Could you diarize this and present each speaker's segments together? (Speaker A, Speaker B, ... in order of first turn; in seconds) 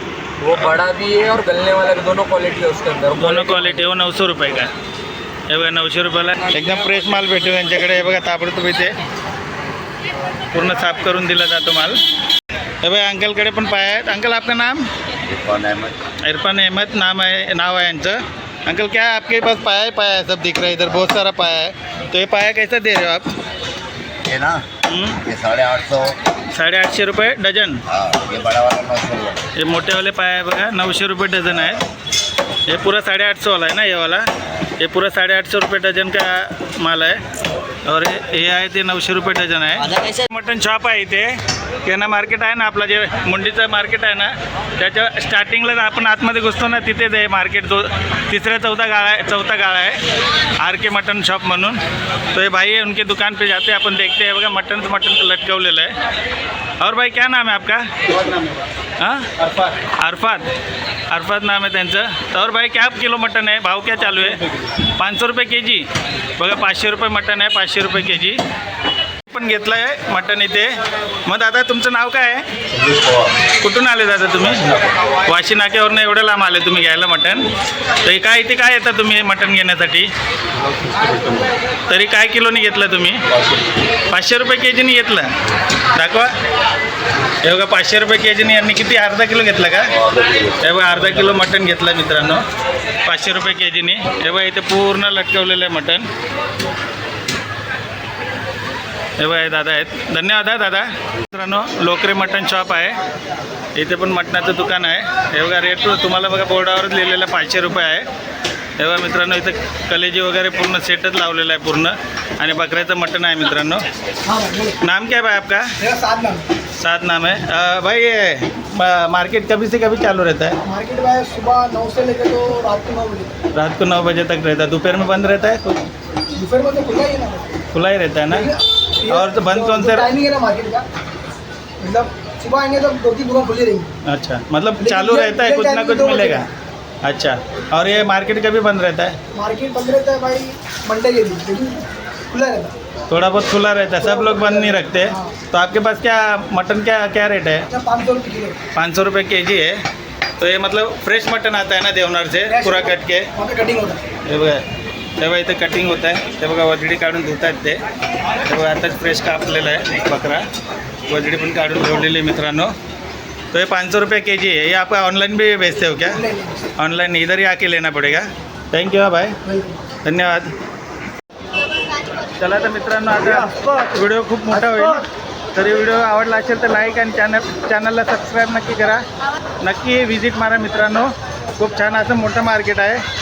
Speaker A: 0.4-3.9, 6.5-7.4
Speaker B: 0.5-0.8, 3.1-4.7, 5.5-8.9, 10.5-12.0, 12.8-14.8, 16.2-23.3, 24.9-25.2, 26.5-27.8, 29.6-31.8, 32.7-34.2, 34.8-37.1, 37.9-41.3, 41.9-50.0, 50.6-51.8, 52.3-55.9, 56.8-60.5, 61.1-64.4, 65.0-65.8, 66.4-68.4, 69.3-70.7, 71.2-72.5, 73.6-74.7, 75.2-77.5, 78.0-80.1, 81.9-83.2, 84.1-85.3, 86.0-86.3, 87.4-90.0, 90.6-92.4, 93.1-96.0, 99.2-103.0, 103.8-108.0, 108.8-113.8, 114.8-115.7, 116.8-120.5, 123.5-125.8, 127.7-128.5, 129.1-130.1, 134.1-136.4, 137.0-139.1, 143.1-147.6, 148.8-149.8, 150.4-153.2, 154.3-154.6, 155.2-157.8, 158.4-160.4, 161.1-162.7, 163.5-166.2, 166.8-169.3, 170.0-170.5, 172.4-179.0, 179.6-183.0
Speaker C: 15.3-15.9, 24.3-24.6, 25.2-26.1, 27.9-29.4
Speaker D: 114.2-114.8, 115.8-116.4, 120.6-123.3, 126.3-127.5, 128.3-130.8, 131.8-133.9, 134.8-136.4, 139.3-142.7, 144.0-145.3, 147.7-148.6, 152.4-154.0, 166.1-166.6, 169.4-169.8, 173.3-173.6, 174.5-175.0